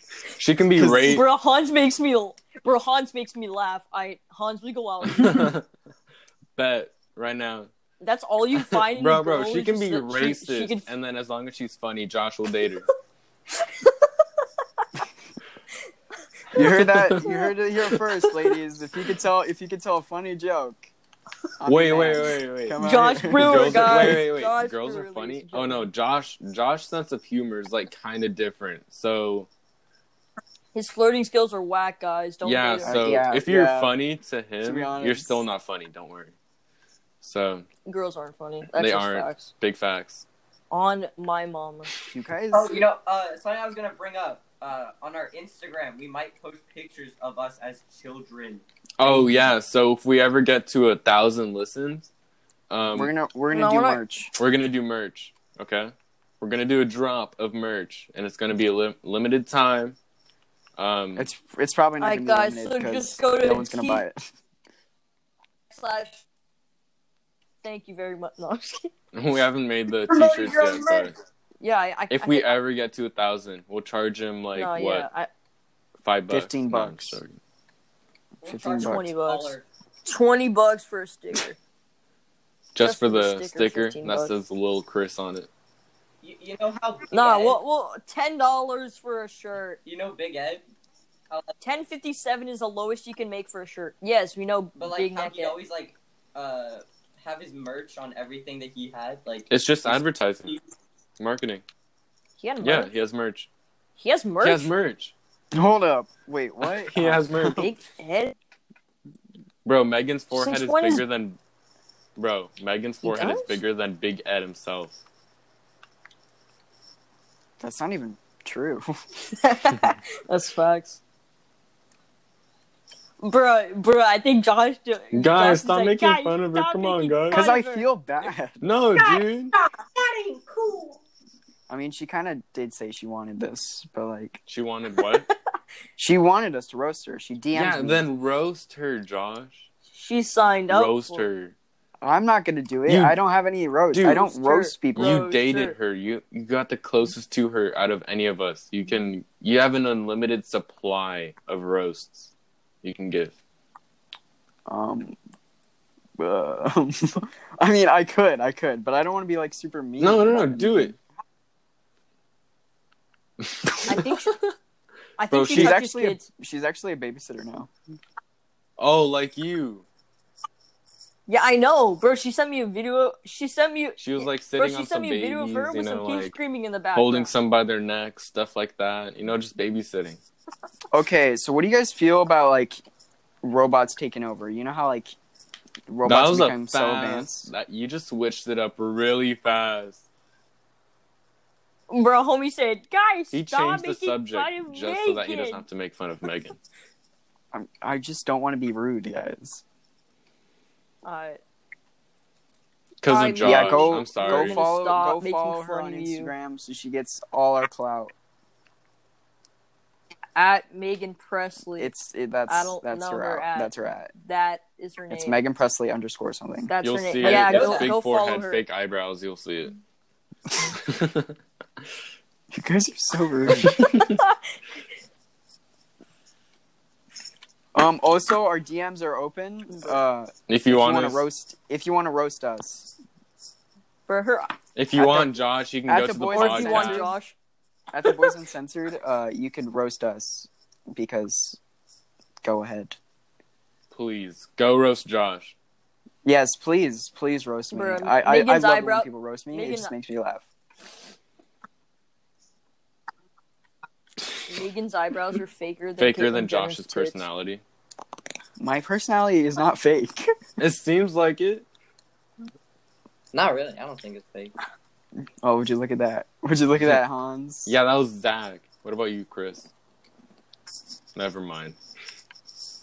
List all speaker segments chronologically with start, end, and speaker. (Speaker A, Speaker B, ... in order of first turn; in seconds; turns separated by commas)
Speaker A: 0.3-1.2, Speaker B: 0.8-1.2, Speaker C: 0.9-5.5, Speaker A: 5.0-5.6, Speaker A: 6.5-7.7, Speaker C: 8.0-10.9, Speaker A: 8.5-12.9, Speaker C: 13.6-13.9, Speaker B: 16.5-20.9, Speaker A: 16.8-17.3, Speaker C: 17.2-17.5, Speaker B: 21.6-24.2, Speaker A: 21.6-29.5, Speaker C: 22.8-25.9, Speaker C: 30.7-33.0, Speaker A: 32.4-36.3, Speaker B: 32.8-33.9, Speaker B: 34.6-35.4, Speaker A: 37.2-37.6, Speaker C: 37.9-39.5, Speaker A: 38.7-40.2, Speaker C: 40.7-41.9, Speaker B: 42.1-42.8, Speaker D: 42.5-48.6, Speaker A: 49.0-52.1, Speaker A: 52.7-53.1, Speaker B: 52.9-54.3, Speaker C: 53.5-54.0, Speaker A: 54.3-60.0, Speaker A: 60.8-61.3, Speaker B: 61.1-64.3, Speaker C: 62.0-64.0, Speaker C: 65.7-66.2, Speaker C: 67.6-68.9, Speaker A: 69.1-71.1, Speaker D: 70.1-71.1, Speaker C: 71.6-72.6, Speaker A: 72.1-75.1, Speaker C: 74.5-75.3, Speaker A: 76.0-77.4, Speaker B: 76.3-77.2, Speaker D: 78.4-79.7, Speaker B: 78.4-79.1, Speaker C: 78.8-81.5, Speaker A: 82.7-85.5, Speaker C: 82.8-84.3, Speaker D: 86.2-87.6, Speaker C: 87.1-89.8, Speaker D: 89.8-90.6, Speaker C: 91.6-95.5, Speaker D: 94.8-100.6, Speaker A: 99.5-100.5, Speaker A: 101.2-101.6, Speaker C: 102.4-102.9, Speaker A: 102.6-103.5, Speaker C: 104.0-104.7, Speaker A: 104.4-105.1, Speaker B: 105.5-107.6, Speaker A: 106.6-107.7, Speaker C: 107.5-108.3, Speaker A: 109.6-111.4, Speaker C: 110.3-111.0, Speaker A: 112.2-115.0, Speaker C: 113.0-113.6, Speaker B: 117.6-119.0, Speaker C: 119.3-121.0, Speaker C: 123.2-127.9, Speaker A: 125.1-127.5, Speaker B: 127.3-128.6, Speaker A: 128.6-129.5, Speaker D: 128.9-131.0, Speaker B: 131.7-134.4, Speaker A: 134.5-135.3, Speaker B: 136.0-138.0, Speaker A: 137.5-139.7, Speaker C: 139.9-141.3, Speaker A: 140.7-141.5, Speaker B: 142.0-145.2, Speaker A: 142.9-143.2, Speaker A: 143.9-144.2, Speaker C: 144.1-145.7, Speaker A: 144.9-152.3, Speaker A: 152.8-153.3, Speaker B: 154.7-155.2, Speaker B: 156.2-160.9, Speaker A: 160.0-160.9, Speaker A: 163.4-164.4, Speaker C: 163.8-164.4, Speaker C: 165.2-166.3, Speaker A: 165.3-165.8, Speaker B: 165.5-167.7, Speaker A: 168.8-169.8, Speaker C: 171.3-177.3, Speaker A: 174.0-176.3, Speaker A: 176.9-180.2, Speaker B: 180.9-182.8, Speaker B: 183.4-185.2, Speaker B: 185.9-187.5, Speaker A: 186.0-190.0, Speaker C: 191.9-195.6, Speaker A: 193.3-196.6, Speaker B: 197.5-199.6, Speaker C: 201.0-201.4, Speaker A: 203.0-204.6, Speaker C: 203.1-206.3, Speaker B: 203.4-208.1, Speaker C: 210.3-211.9, Speaker B: 211.8-214.1, Speaker C: 212.5-215.4, Speaker B: 215.1-216.7, Speaker C: 216.7-218.6, Speaker A: 216.8-219.7, Speaker D: 217.2-217.9, Speaker A: 220.7-221.3, Speaker B: 222.5-223.8, Speaker A: 223.6-224.2, Speaker C: 223.8-224.3, Speaker B: 227.7-232.9, Speaker A: 230.5-231.2, Speaker C: 234.1-234.5, Speaker A: 234.8-237.1, Speaker B: 234.9-235.3, Speaker B: 235.9-237.2, Speaker C: 236.3-237.3, Speaker B: 237.9-241.6, Speaker B: 242.4-243.0, Speaker A: 243.9-245.5, Speaker B: 246.2-250.4, Speaker C: 247.7-249.9, Speaker C: 254.5-257.2, Speaker A: 256.0-257.6, Speaker B: 258.6-260.3, Speaker A: 260.6-261.6, Speaker D: 263.3-264.5, Speaker B: 265.4-267.7, Speaker A: 267.6-269.7, Speaker A: 271.1-271.8